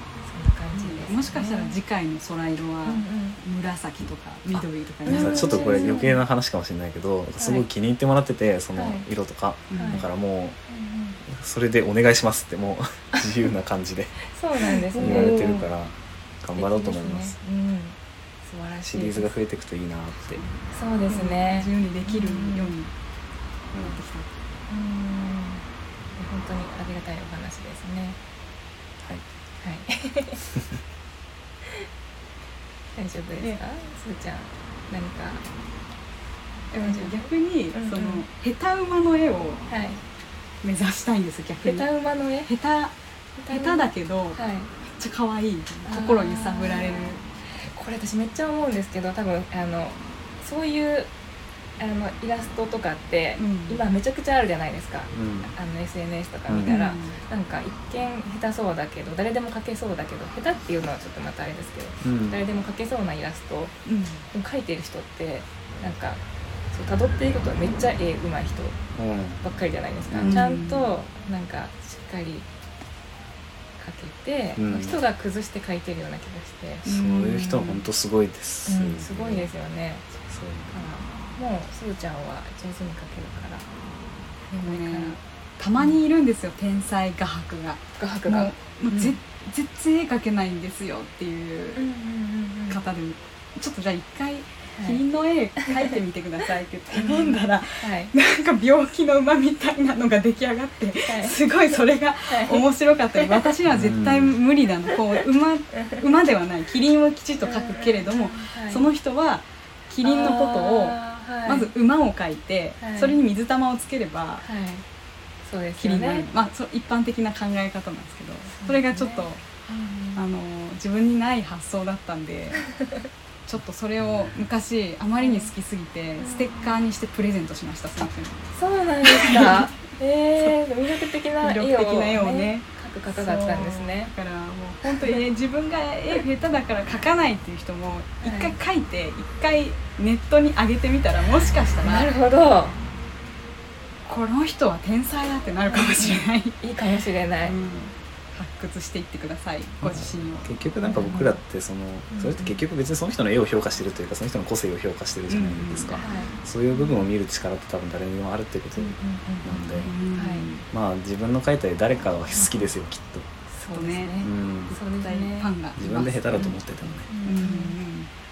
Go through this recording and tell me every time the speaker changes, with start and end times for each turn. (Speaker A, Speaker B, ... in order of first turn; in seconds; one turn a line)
Speaker A: 0.2-1.8
Speaker B: 0.7-6.0
Speaker A: 2.8-3.4
Speaker C: 4.5-10.6
Speaker A: 5.0-6.2
Speaker A: 7.4-7.7
Speaker A: 8.7-9.1
Speaker B: 9.7-10.0
Speaker A: 9.7-10.1
Speaker A: 10.7-11.2
Speaker C: 11.2-14.2
Speaker A: 14.3-15.5
Speaker C: 15.0-17.4
Speaker B: 15.0-15.6
Speaker A: 16.5-19.3
Speaker C: 18.8-20.4
Speaker A: 20.7-22.7
Speaker B: 21.1-22.9
Speaker B: 23.8-24.3
Speaker A: 24.7-25.6
Speaker A: 26.1-28.2
Speaker A: 29.6-30.4
Speaker A: 32.9-35.4
Speaker B: 36.7-39.6
Speaker A: 36.8-38.2
Speaker A: 39.7-40.0
Speaker B: 40.6-41.9
Speaker A: 41.6-42.5
Speaker B: 42.4-42.9
Speaker A: 43.4-44.7
Speaker B: 43.5-47.2
Speaker A: 45.9-51.1
Speaker A: 51.8-63.8
Speaker B: 53.4-53.8
Speaker C: 55.1-55.5
Speaker C: 56.5-56.8
Speaker B: 56.6-57.2
Speaker C: 62.0-62.4
Speaker B: 63.8-64.3
Speaker A: 64.3-68.8
Speaker C: 68.9-69.4
Speaker A: 69.4-72.5
Speaker C: 70.1-70.5
Speaker B: 70.2-70.9
Speaker A: 73.8-76.8
Speaker C: 74.5-75.0
Speaker B: 76.8-77.8
Speaker C: 76.8-79.5
Speaker A: 78.7-80.1
Speaker C: 80.3-80.8
Speaker A: 80.7-83.7
Speaker B: 84.5-91.8
Speaker A: 84.6-85.2
Speaker A: 88.0-89.2
Speaker A: 91.8-92.8
Speaker B: 92.7-114.4
Speaker A: 94.7-95.0
Speaker A: 97.0-98.1
Speaker A: 101.0-101.5
Speaker A: 102.3-102.7
Speaker C: 103.7-104.4
Speaker A: 105.7-106.0
Speaker A: 107.4-108.8
Speaker A: 110.0-111.7
Speaker A: 112.8-113.2
Speaker A: 114.4-114.8
Speaker A: 115.4-116.3
Speaker B: 115.8-119.4
Speaker A: 118.5-120.2
Speaker B: 120.1-122.7
Speaker B: 123.5-128.5
Speaker A: 125.2-125.5
Speaker A: 126.2-126.8
Speaker A: 128.5-134.1
Speaker B: 129.0-129.7
Speaker B: 131.4-142.1
Speaker A: 135.0-135.2
Speaker A: 138.2-138.6
Speaker A: 141.8-142.8
Speaker B: 144.0-146.6
Speaker A: 145.6-147.6
Speaker B: 147.4-150.5
Speaker C: 149.8-159.9
Speaker A: 150.8-151.4
Speaker A: 152.1-152.6
Speaker B: 155.3-156.0
Speaker A: 155.9-157.1
Speaker A: 158.8-160.5
Speaker B: 159.8-160.6
Speaker C: 160.7-163.3
Speaker A: 163.5-165.5
Speaker B: 163.7-164.2
Speaker C: 164.2-164.8
Speaker B: 164.7-166.6
Speaker C: 165.8-167.1
Speaker A: 167.1-167.8
Speaker B: 167.2-168.1